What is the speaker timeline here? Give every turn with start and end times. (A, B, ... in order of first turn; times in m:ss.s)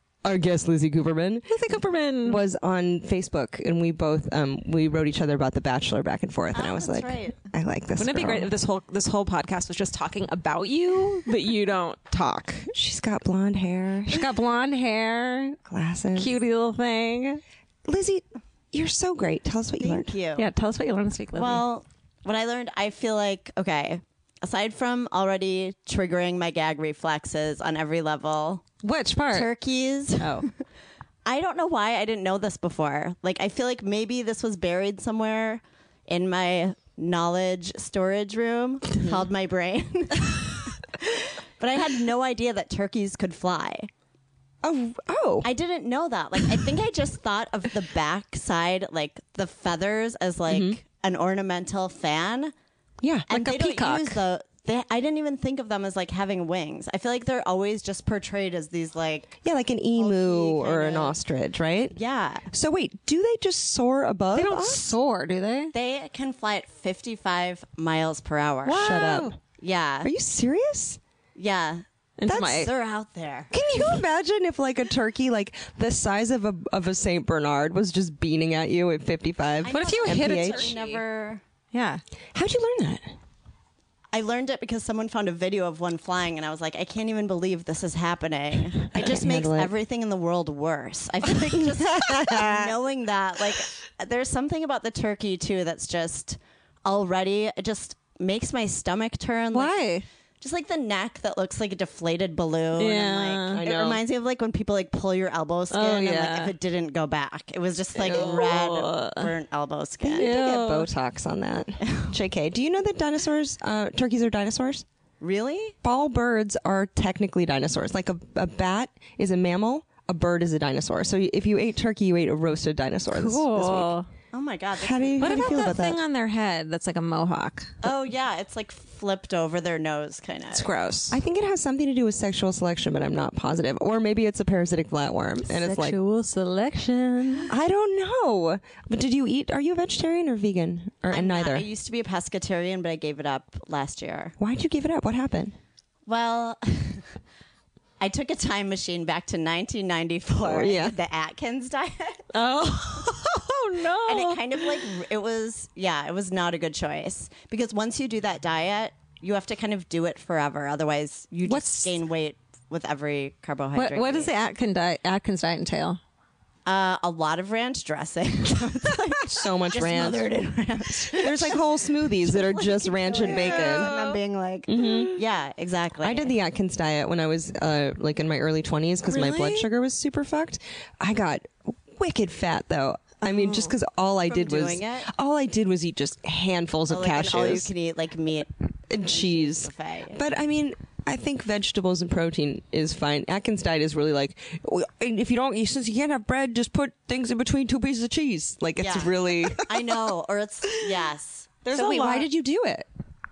0:00.2-0:01.5 A
0:01.5-0:02.4 B
0:02.2-0:08.5 A
0:06.5-0:07.3 C
0:08.0-0:12.7 B
0:12.7-0:14.3 A
0:14.1-0:15.6 B
0:15.7-0:16.3 A
0:16.1-0:17.4 B
0:17.9-0:20.1 A
0:19.8-0:20.4 C
0:20.4-0:21.6 B
0:21.3-0:28.6 C
0:28.8-0:29.5 B
0:29.3-0:30.4 C
0:30.2-0:30.5 B
0:31.2-0:40.7 C
0:41.6-0:43.9 C
0:44.6-0:45.5 A
0:45.4-0:52.5 C
0:50.5-0:50.8 A
0:53.0-0:54.2 A
0:53.3-0:59.3 C
0:59.4-1:04.9 A
1:00.0-1:01.2 C
1:01.9-1:02.4 C
1:04.3-1:05.7 B
1:05.7-1:08.9 C
1:08.6-1:09.4 B
1:08.8-1:09.4 A
1:09.6-1:10.1 C
1:10.0-1:11.0 A
1:11.4-1:11.8 C
1:12.2-1:12.7 B
1:12.3-1:12.7 A
1:12.4-1:13.5 C
1:13.5-1:20.8 A
1:19.6-1:21.4 C
1:19.7-1:21.0 B
1:21.7-1:22.0 B
1:22.3-1:23.2 A
1:24.1-1:39.8 C
1:28.9-1:29.7 A
1:31.9-1:32.5 A
1:39.5-1:40.0 B
1:40.4-1:50.3 C
1:42.8-1:43.6 B
1:43.6-1:44.0 A
1:45.7-1:46.5 B
1:48.0-1:48.5 A
1:48.1-1:49.3 B
1:50.0-1:54.8 A
1:50.2-1:50.9 B
1:55.2-1:55.8 C
1:55.8-2:03.9 A
2:03.1-2:04.1 B
2:04.3-2:05.8 C
2:04.8-2:06.0 A
2:05.2-2:07.8 B
2:07.8-2:10.7 C
2:10.5-2:11.2 B
2:11.1-2:16.0 A
2:15.5-2:17.5 B
2:17.5-2:21.7 A
2:21.1-2:24.3 C
2:24.4-2:25.6 A
2:26.1-2:27.0 C
2:28.0-2:32.2 C
2:30.4-2:31.0 A
2:32.3-2:34.9 B
2:34.1-2:44.3 C
2:41.5-2:42.0 B
2:43.7-2:46.0 B
2:46.7-2:51.6 C
2:49.2-2:50.3 A
2:51.1-2:53.9 A
2:52.2-2:56.3 C
2:53.2-2:54.2 B
2:54.7-2:55.2 A
2:56.0-3:07.7 A
2:59.1-2:59.7 B
3:03.2-3:03.7 B
3:04.3-3:05.1 C
3:06.9-3:10.2 C
3:08.9-3:19.6 A
3:18.8-3:21.6 C
3:21.6-3:22.3 B
3:21.7-3:22.9 A